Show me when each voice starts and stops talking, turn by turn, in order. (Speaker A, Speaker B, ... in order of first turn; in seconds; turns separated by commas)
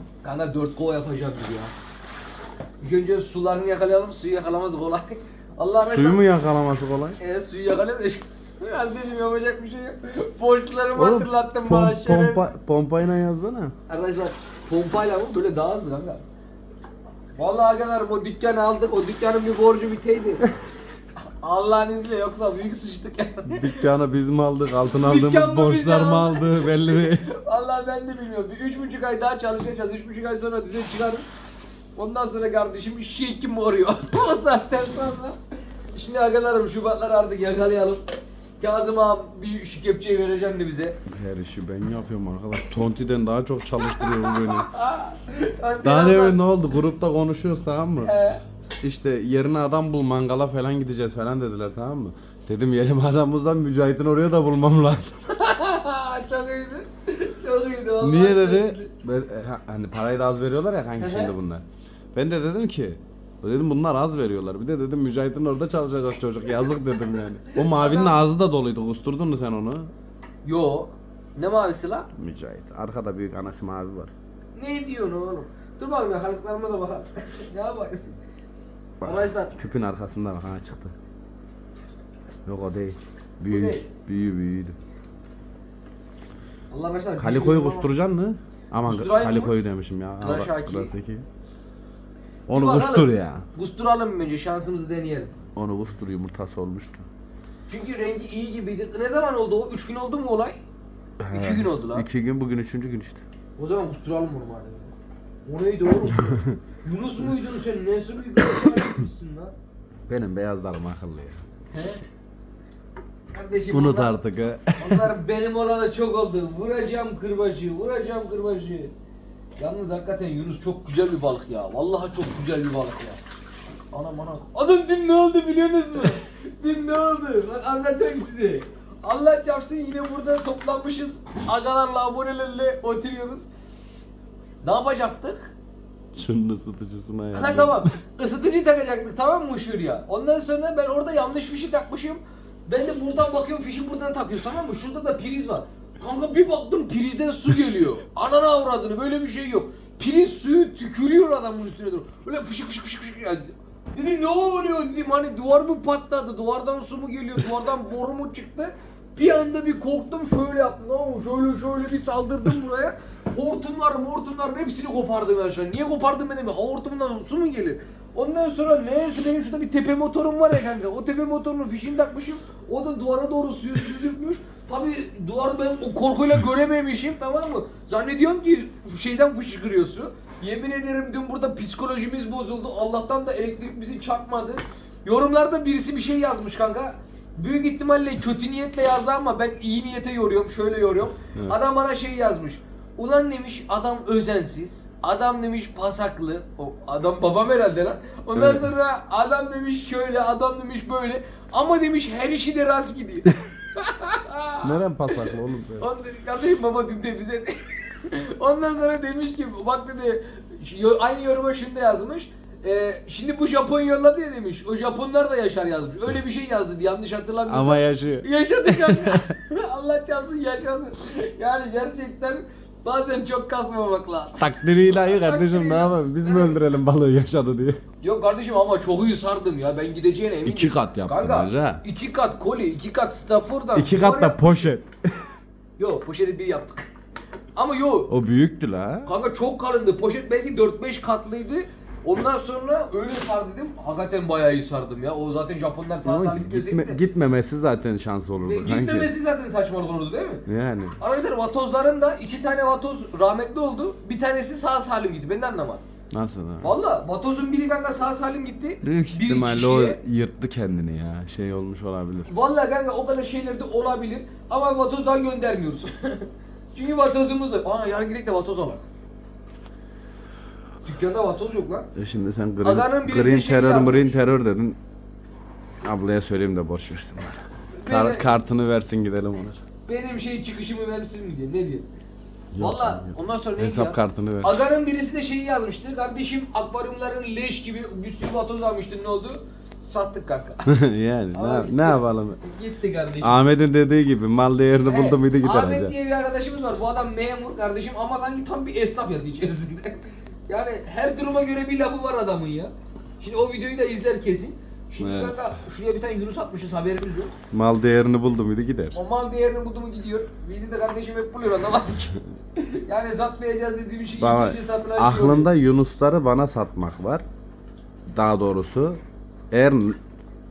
Speaker A: 0.2-1.7, Speaker A: 2.8-6.2, Speaker B: 5.9-7.2, Speaker A: 7.2-12.4, Speaker B: 11.0-13.7, Speaker A: 13.9-16.2, Speaker A: 17.4-20.5, Speaker A: 21.4-23.8, Speaker B: 23.5-27.3, Speaker A: 25.1-31.3, Speaker A: 32.0-35.4, Speaker A: 35.9-38.0, Speaker A: 38.6-41.0, Speaker B: 41.1-44.7, Speaker A: 43.9-46.4, Speaker B: 45.8-48.1, Speaker A: 48.0-48.4, Speaker B: 48.6-55.2, Speaker A: 55.3-58.9, Speaker B: 58.0-69.9, Speaker A: 61.0-61.3, Speaker A: 67.5-68.2, Speaker A: 70.5-72.1, Speaker B: 72.2-74.1, Speaker A: 74.6-78.1, Speaker B: 79.0-80.9, Speaker A: 79.0-79.5, Speaker B: 82.5-84.8, Speaker A: 83.5-83.8, Speaker A: 86.7-87.9, Speaker B: 87.2-91.2, Speaker A: 88.8-89.5, Speaker A: 90.2-90.9, Speaker B: 92.5-93.5, Speaker A: 92.5-95.3, Speaker B: 95.6-97.0, Speaker A: 97.7-100.6, Speaker B: 101.2-103.2, Speaker A: 101.3-102.1, Speaker A: 103.6-104.9, Speaker A: 105.5-109.5, Speaker B: 106.2-106.6, Speaker B: 110.1-111.4, Speaker A: 111.7-112.0, Speaker A: 113.3-114.2, Speaker B: 113.7-115.1, Speaker A: 114.8-118.9, Speaker A: 119.6-123.2, Speaker A: 123.9-133.5, Speaker A: 134.6-135.5, Speaker B: 136.1-137.9, Speaker A: 137.3-226.6, Speaker B: 198.3-198.7, Speaker B: 204.6-205.9, Speaker B: 217.5-219.3, Speaker B: 224.4-227.8, Speaker A: 228.0-234.6, Speaker B: 230.4-231.8, Speaker B: 233.8-235.3, Speaker A: 235.8-236.9, Speaker A: 237.6-238.1, Speaker B: 238.1-239.1, Speaker A: 239.1-247.0, Speaker B: 246.0-249.1, Speaker A: 248.4-250.4, Speaker B: 250.5-251.0, Speaker A: 251.0-255.8, Speaker B: 256.1-256.7, Speaker A: 256.6-260.0, Speaker B: 258.8-262.3, Speaker A: 262.3-268.8, Speaker A: 270.9-271.9, Speaker B: 271.9-274.8, Speaker A: 272.6-274.2, Speaker B: 275.8-279.6, Speaker A: 277.8-278.3, Speaker A: 279.9-281.9, Speaker B: 282.5-284.6, Speaker A: 282.6-290.7, Speaker B: 290.7-292.4, Speaker A: 291.3-293.4, Speaker B: 293.2-295.9, Speaker A: 294.9-307.3, Speaker B: 305.0-305.4, Speaker B: 307.5-309.0, Speaker A: 308.9-315.5, Speaker B: 314.2-317.2, Speaker B: 318.1-319.0, Speaker B: 319.5-320.0